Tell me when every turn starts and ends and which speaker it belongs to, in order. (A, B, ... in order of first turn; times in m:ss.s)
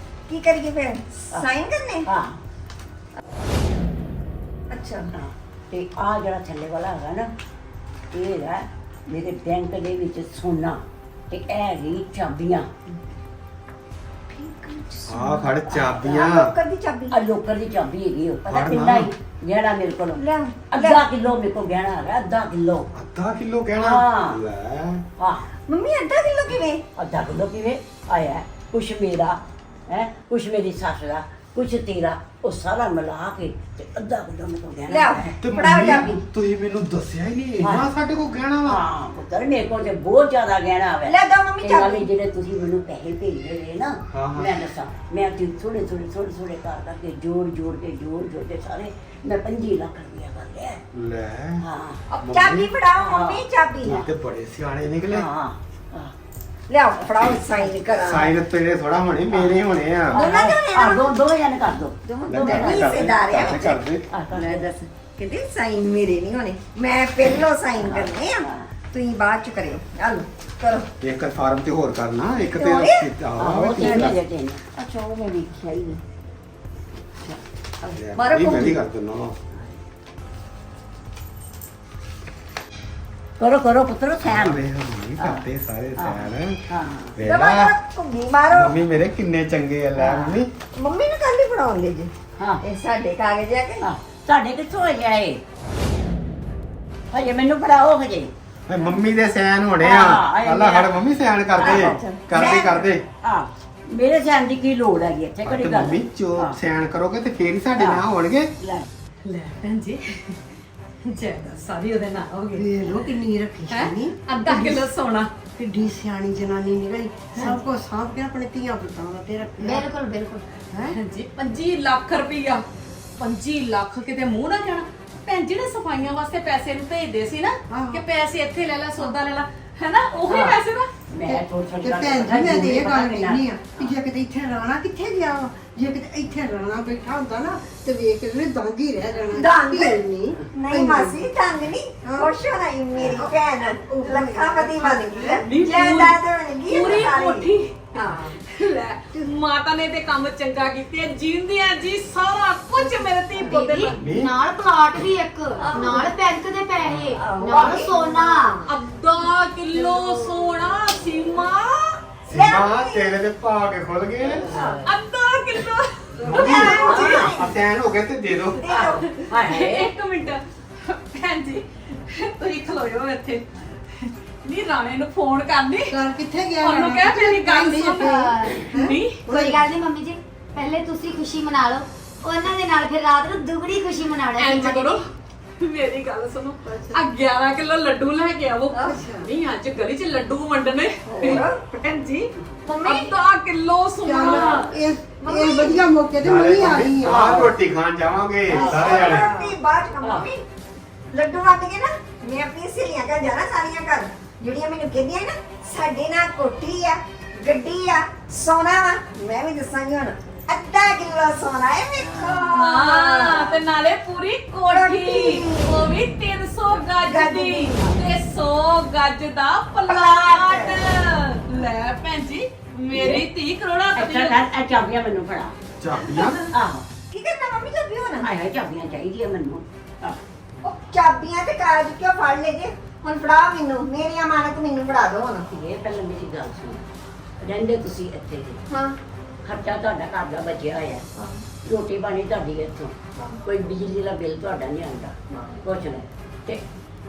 0:00.3-0:02.1 A
0:02.1-0:02.4 B
0:04.7-0:05.1 A
0:05.1-0:07.3 B
0:08.1-0:12.7 B
0:14.3-0:15.3 C
0:15.1-0:16.5 D
0:15.6-0:16.3 B
0:16.1-0:17.2 A
0:17.1-0:22.9 B
0:18.5-0:19.1 D
0:20.2-0:21.0 A
0:22.9-0:25.0 D
0:23.8-0:24.4 B
0:25.2-0:25.5 B
0:25.7-0:26.8 A
0:27.0-0:35.4 B
0:34.9-0:36.2 A
0:35.4-0:38.8 D
0:37.6-0:37.9 B
0:38.6-0:50.8 B
0:41.1-0:42.1 A
0:44.1-0:44.6 D
0:50.9-0:51.6 D
0:51.6-0:52.0 B
0:52.1-0:54.0 A
0:52.2-0:52.7 D
0:53.0-0:53.5 B
0:53.8-0:55.3 D
0:55.1-0:56.1 B
0:56.7-0:58.3 A
0:57.0-0:57.7 B
0:58.0-1:00.2 D
1:00.1-1:01.2 A
1:00.1-1:03.5 B
1:02.0-1:10.9 A
1:02.3-1:04.1 D
1:04.1-1:04.7 B
1:07.8-1:08.7 B
1:11.0-1:14.2 D
1:12.4-1:13.1 A
1:13.4-1:14.6 B
1:13.8-1:14.1 A
1:14.7-1:16.0 A
1:17.2-1:18.7 B
1:17.9-1:19.4 D
1:18.2-1:18.7 A
1:23.4-1:24.6 B
1:24.2-1:26.6 D
1:25.2-1:25.4 B
1:26.0-1:27.2 B
1:27.2-1:27.7 D
1:27.2-1:28.8 A
1:28.5-1:30.5 D
1:30.0-1:30.4 B
1:30.8-1:33.9 A
1:33.8-1:35.4 B
1:37.1-1:38.3 B
1:38.7-1:43.0 D
1:39.8-1:41.0 B
1:41.6-1:42.7 B
1:41.6-1:42.9 A
1:43.2-1:46.6 B
1:45.4-1:48.5 D
1:47.8-1:48.0 B
1:48.6-1:48.9 B
1:49.2-1:50.4 E
1:51.0-1:53.1 E
1:52.5-1:54.9 C
1:53.7-1:55.4 E
1:55.5-1:59.9 C
1:59.6-2:00.4 F
2:00.7-2:01.0 C
2:00.9-2:02.6 E
2:03.2-2:10.9 E
2:07.7-2:08.0 C
2:10.3-2:10.6 B
2:11.1-2:14.0 B
2:11.3-2:21.3 C
2:19.3-2:20.0 A
2:20.5-2:27.5 A
2:22.0-2:22.3 C
2:23.8-2:25.4 C
2:25.4-2:34.0 E
2:28.0-2:28.4 C
2:33.4-2:38.7 F
2:34.0-2:34.3 D
2:35.6-2:36.1 E
2:36.9-2:37.9 B
2:37.4-2:38.7 A
2:38.7-2:42.0 E
2:39.7-2:40.3 C
2:42.3-2:44.5 D
2:42.3-2:43.1 A
2:44.2-2:44.9 B
2:44.8-2:47.1 E
2:46.2-2:48.6 D
2:46.3-2:47.5 A
2:46.4-2:47.4 B
2:48.6-2:49.2 A
2:48.7-2:49.9 B
2:49.1-2:56.0 E
2:55.9-2:59.6 C
2:56.6-2:59.2 E
2:58.0-2:58.7 F
2:59.3-3:05.0 F
3:04.4-3:05.1 E
3:05.6-3:14.7 E
3:06.6-3:07.0 C
3:08.7-3:09.3 C
3:11.2-3:11.6 A
3:11.2-3:11.5 B
3:12.7-3:13.1 A
3:14.0-3:17.5 C
3:14.2-3:14.8 B
3:15.2-3:15.9 A
3:16.2-3:19.3 D
3:18.5-3:20.4 A
3:18.6-3:19.1 B
3:18.7-3:19.5 C
3:20.0-3:20.3 B
3:21.1-3:33.6 A
3:32.0-3:32.5 B
3:32.5-3:44.4 E
3:34.7-3:35.9 A
3:37.0-3:37.9 A
3:39.9-3:40.8 A
3:42.9-3:43.2 B
3:44.0-3:45.5 B
3:45.8-3:46.4 D
3:46.5-3:46.9 B
3:47.1-3:48.3 A
3:48.2-3:50.2 B
3:50.6-3:55.5 A
3:55.5-3:56.8 B
3:57.4-3:58.6 B
3:58.7-3:59.0 A
3:59.4-4:01.1 B
4:01.6-4:06.6 B